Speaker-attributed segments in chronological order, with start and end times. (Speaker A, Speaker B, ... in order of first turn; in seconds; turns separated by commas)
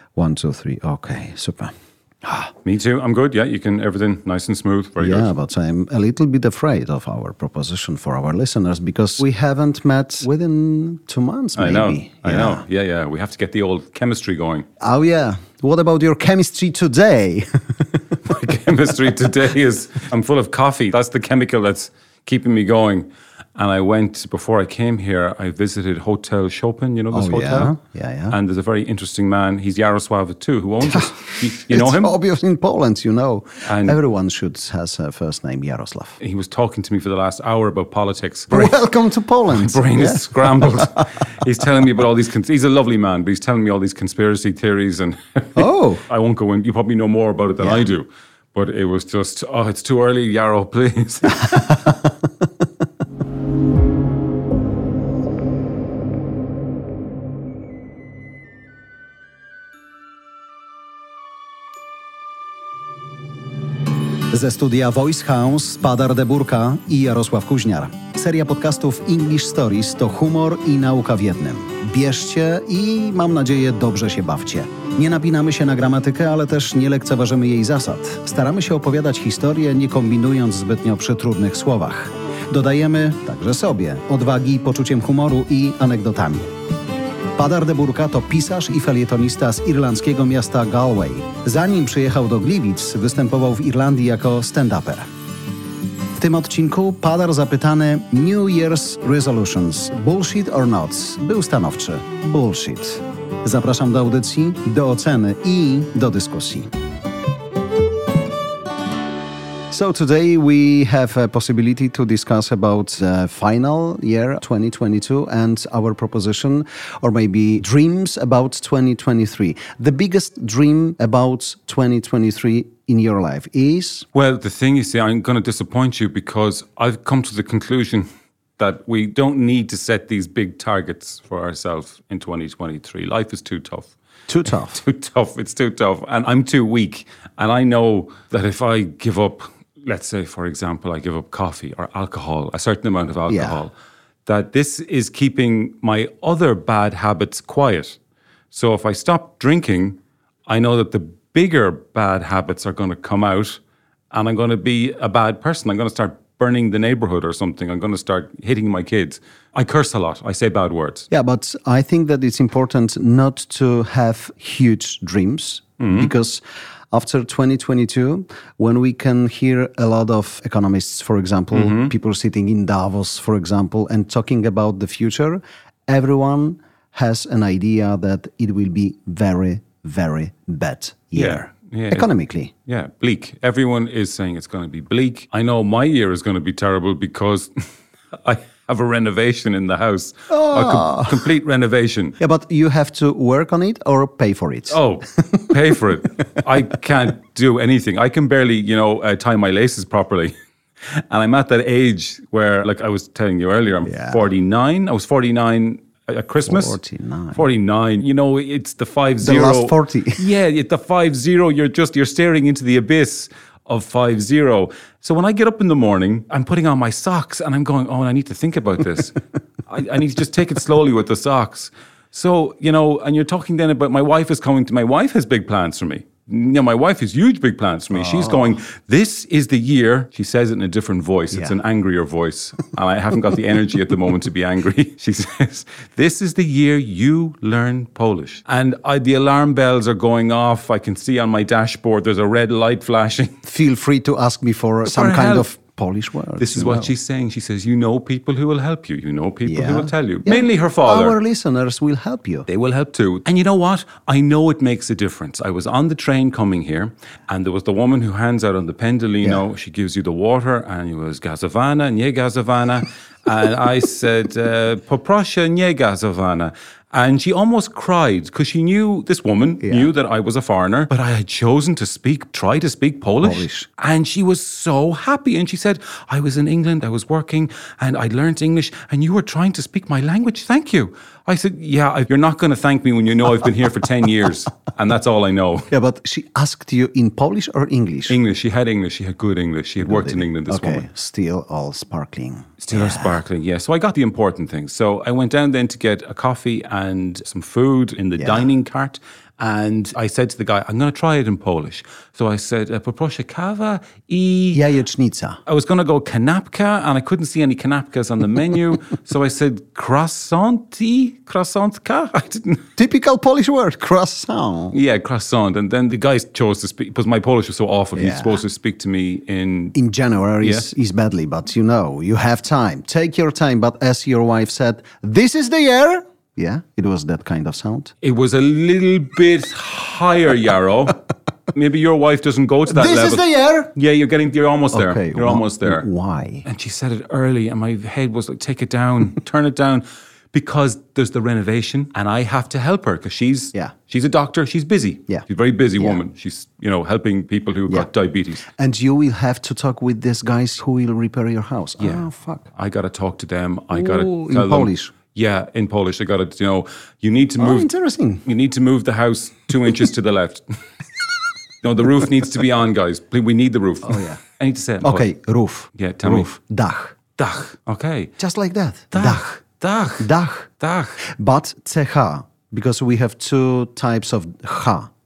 Speaker A: 0.1-1.7, Speaker A: 2.2-2.5, Speaker B: 2.6-5.3, Speaker A: 5.0-12.6, Speaker B: 11.6-14.7, Speaker A: 14.8-18.2, Speaker B: 18.2-27.8, Speaker A: 27.1-28.4, Speaker B: 28.3-32.2, Speaker A: 30.9-36.2, Speaker B: 33.6-34.0, Speaker B: 36.2-38.8, Speaker A: 38.5-41.1, Speaker B: 39.5-51.7, Speaker A: 45.5-46.0, Speaker A: 47.6-47.8, Speaker A: 51.3-52.1, Speaker A: 64.3-86.5, Speaker A: 87.4-95.1, Speaker A: 96.2-106.7, Speaker A: 109.7-124.1, Speaker B: 124.1-128.1, Speaker B: 128.6-133.9, Speaker A: 134.3-134.8, Speaker B: 134.5-143.7, Speaker A: 143.3-143.6, Speaker B: 144.2-148.0, Speaker B: 148.5-153.6, Speaker B: 154.1-161.1, Speaker A: 161.1-182.5, Speaker B: 165.8-166.1, Speaker B: 171.5-171.9, Speaker B: 181.2-182.1, Speaker B: 182.7-192.2, Speaker A: 190.3-191.3, Speaker A: 192.2-195.5, Speaker B: 194.7-200.3, Speaker B: 201.1-206.8, Speaker A: 203.8-204.2, Speaker A: 206.5-207.4, Speaker B: 207.3-243.4, Speaker A: 209.2-210.2, Speaker A: 227.9-228.6, Speaker A: 243.4-246.9, Speaker B: 244.9-245.5, Speaker B: 246.4-251.2, Speaker A: 249.4-252.5, Speaker B: 252.5-285.7, Speaker A: 269.6-269.9, Speaker A: 273.2-273.7, Speaker A: 285.7-288.2, Speaker B: 288.1-290.9, Speaker A: 289.8-293.2, Speaker B: 292.6-304.6, Speaker A: 298.2-298.5, Speaker A: 304.5-305.4, Speaker B: 305.4-312.6, Speaker A: 312.8-314.8, Speaker B: 314.7-319.8, Speaker A: 317.9-318.4, Speaker A: 319.8-327.9, Speaker B: 328.0-331.0, Speaker B: 331.5-335.9, Speaker A: 332.7-333.7, Speaker A: 334.7-336.4, Speaker B: 336.4-348.5, Speaker A: 348.5-352.5, Speaker B: 351.8-357.7, Speaker A: 353.7-354.9, Speaker A: 357.4-358.2, Speaker B: 358.2-360.4, Speaker B: 361.6-365.1, Speaker A: 363.9-364.2, Speaker A: 364.8-366.9, Speaker B: 365.8-366.3, Speaker B: 367.2-368.1, Speaker A: 368.2-369.4, Speaker B: 368.9-370.1, Speaker A: 370.0-370.5, Speaker B: 370.6-371.0, Speaker A: 371.0-374.9